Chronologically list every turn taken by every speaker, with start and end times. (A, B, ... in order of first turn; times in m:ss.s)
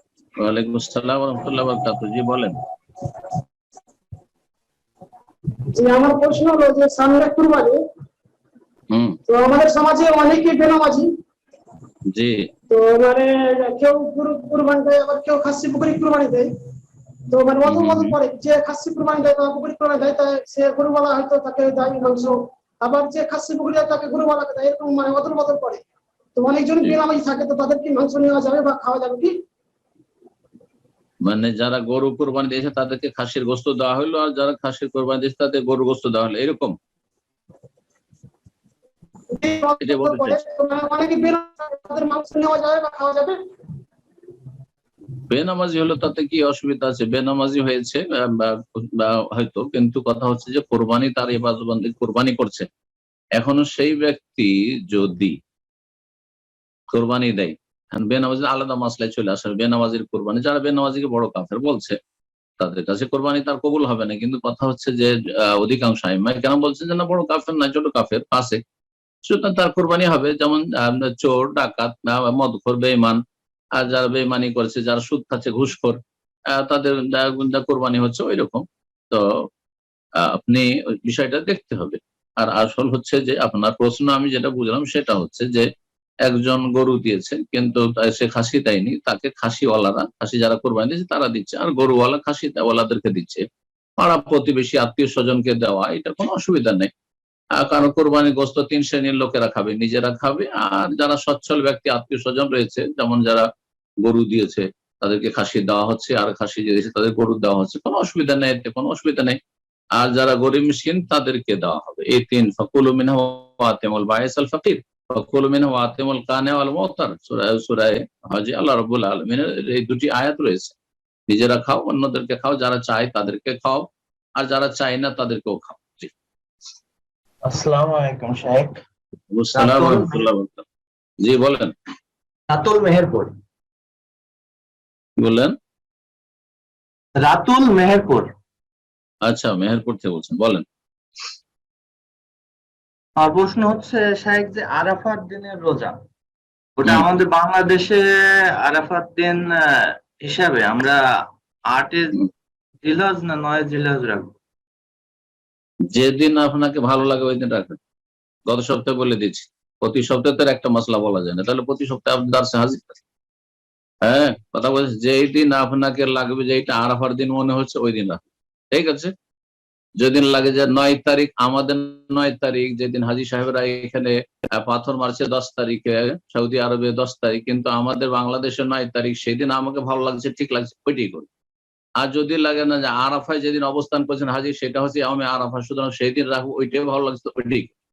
0:00.4-0:02.6 A
0:05.7-0:07.8 B
0:08.9-0:09.2 A
0:09.3-0:11.1 B
0:12.1-0:12.5 A
0:12.7-0:16.5 B
0:17.3-0:25.8 B
0:17.6-0:18.2 A
0:26.3-0:29.3 B
0:31.2-0:36.7 A
0:39.3-0:43.4 B
0:39.8-0:40.4 A
0:45.3-0:52.6 A
0:53.4-0:55.3 A
0:56.9-1:02.0 A
1:02.6-1:08.6 A
1:09.3-1:13.2 A
1:13.8-1:16.0 A
1:16.5-1:19.2 A
1:20.3-1:25.6 A
1:26.2-1:33.4 A
1:34.0-1:36.9 A
1:37.6-1:43.4 A
1:44.0-1:49.4 A
1:50.0-2:00.7 A
2:01.3-2:03.9 A
2:04.4-2:06.1 A
2:07.4-2:08.8 C
2:09.3-2:10.6 A
2:09.5-2:10.3 C
2:11.2-2:11.7 A
2:12.5-2:13.4 C
2:15.2-2:15.5 A
2:17.2-2:18.3 C
2:19.2-2:20.6 A
2:23.2-2:25.9 C
2:26.8-2:31.0 C
2:31.7-2:32.2 C
2:32.8-2:34.3 C
2:35.9-2:37.8 A
2:38.5-2:43.0 A
2:44.0-2:49.1 A
2:50.0-3:01.3 A
3:02.0-3:07.7 A